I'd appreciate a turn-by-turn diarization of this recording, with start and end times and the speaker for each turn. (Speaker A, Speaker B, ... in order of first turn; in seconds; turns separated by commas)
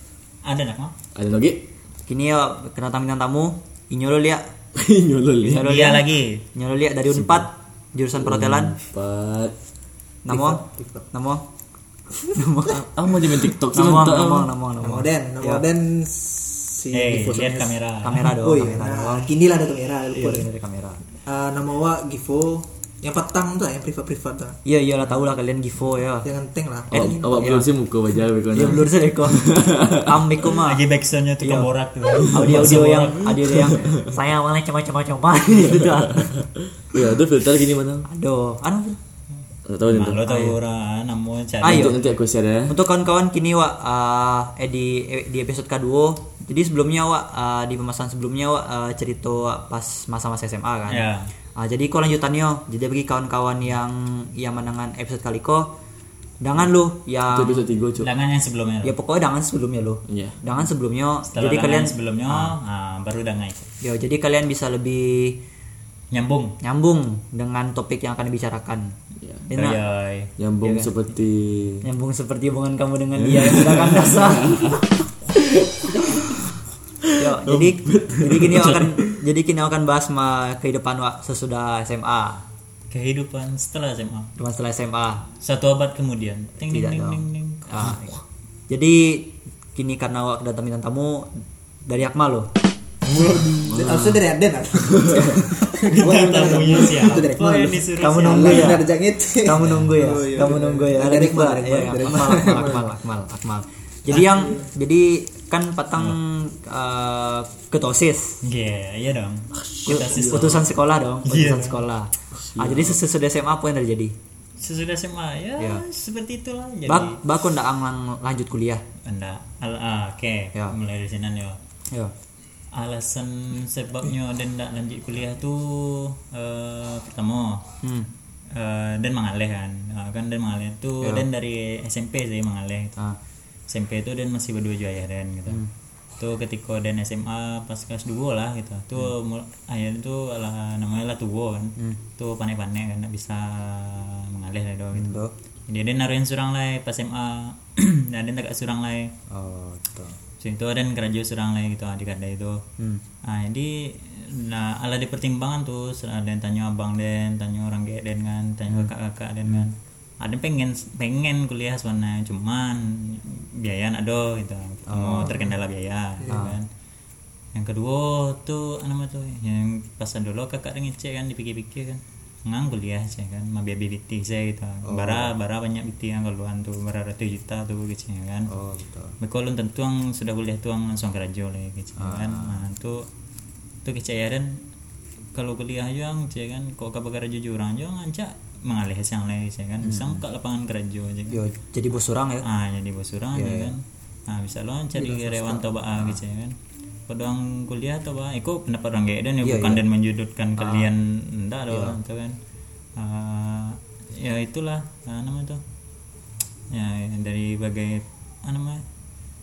Speaker A: 0.5-0.9, Speaker B: 1.1-1.7, Speaker C: 2.1-4.4, Speaker B: 4.8-5.7, Speaker C: 5.4-8.8, Speaker A: 5.5-6.4, Speaker B: 7.1-7.5, Speaker B: 8.1-9.6, Speaker C: 10.2-10.6, Speaker D: 10.3-11.1, Speaker C: 11.1-11.4, Speaker C: 12.3-12.9, Speaker B: 12.7-14.5, Speaker C: 13.7-15.6, Speaker D: 14.8-20.5, Speaker A: 16.9-18.3, Speaker C: 18.0-19.3, Speaker C: 20.1-21.0, Speaker D: 21.3-24.6, Speaker C: 24.6-26.3, Speaker D: 26.2-27.3, Speaker C: 26.9-27.7, Speaker B: 26.9-30.4, Speaker C: 28.5-30.8, Speaker A: 30.5-33.7, Speaker C: 31.4-31.7, Speaker B: 32.2-32.8, Speaker C: 32.3-36.5, Speaker B: 33.5-34.1, Speaker B: 35.6-38.1, Speaker C: 38.1-39.0, Speaker B: 39.7-40.2, Speaker A: 39.9-42.0, Speaker C: 40.2-40.6, Speaker C: 41.6-42.0, Speaker B: 41.6-42.7, Speaker C: 42.7-55.7, Speaker A: 50.9-51.3, Speaker C: 56.4-57.6, Speaker B: 57.3-58.1, Speaker A: 58.0-59.0, Speaker C: 58.8-62.5, Speaker B: 60.1-60.4, Speaker A: 61.3-63.7, Speaker C: 63.8-65.4, Speaker A: 66.1-66.6, Speaker C: 66.6-68.9, Speaker B: 69.2-69.5, Speaker C: 69.5-69.8, Speaker A: 69.5-70.3, Speaker B: 70.4-71.8, Speaker C: 70.6-70.9, Speaker C: 71.8-74.8, Speaker B: 73.2-79.2, Speaker C: 76.0-76.3, Speaker C: 77.2-82.4, Speaker A: 82.9-84.3, Speaker C: 84.4-85.3, Speaker A: 85.4-87.9, Speaker C: 86.7-88.2, Speaker C: 88.7-91.3, Speaker C: 91.9-92.5, Speaker D: 93.1-102.9, Speaker B: 93.6-94.2, Speaker B: 94.9-95.5, Speaker A: 95.8-98.8, Speaker C: 98.0-98.9, Speaker C: 99.4-108.4, Speaker D: 104.1-104.7, Speaker A: 108.4-110.7, Speaker B: 109.6-110.7, Speaker C: 109.9-114.1, Speaker A: 111.2-111.8, Speaker B: 112.4-113.0, Speaker A: 114.6-117.2, Speaker C: 116.9-118.8, Speaker A: 119.0-121.6, Speaker A: 122.7-127.6, Speaker C: 127.8-128.1, Speaker A: 128.5-133.0, Speaker A: 133.7-135.6, Speaker A: 136.2-145.2, Speaker C: 144.9-145.3, Speaker A: 145.7-149.1, Speaker C: 149.3-150.2, Speaker A: 150.4-152.6, Speaker A: 153.2-166.7, Speaker C: 164.9-165.5, Speaker D: 166.2-166.5, Speaker C: 166.3-166.6, Speaker A: 167.5-178.5, Speaker C: 174.8-175.3, Speaker C: 178.5-179.2, Speaker A: 179.2-183.1, Speaker C: 182.0-182.6, Speaker A: 183.8-184.6, Speaker A: 185.3-191.4, Speaker C: 189.8-190.2, Speaker C: 191.3-192.5, Speaker A: 192.4-196.6, Speaker C: 193.3-193.7, Speaker C: 195.0-196.2, Speaker A: 197.1-202.4, Speaker C: 199.4-199.8, Speaker C: 200.6-200.9, Speaker C: 201.7-202.0, Speaker A: 203.0-205.6, Speaker A: 206.7-208.8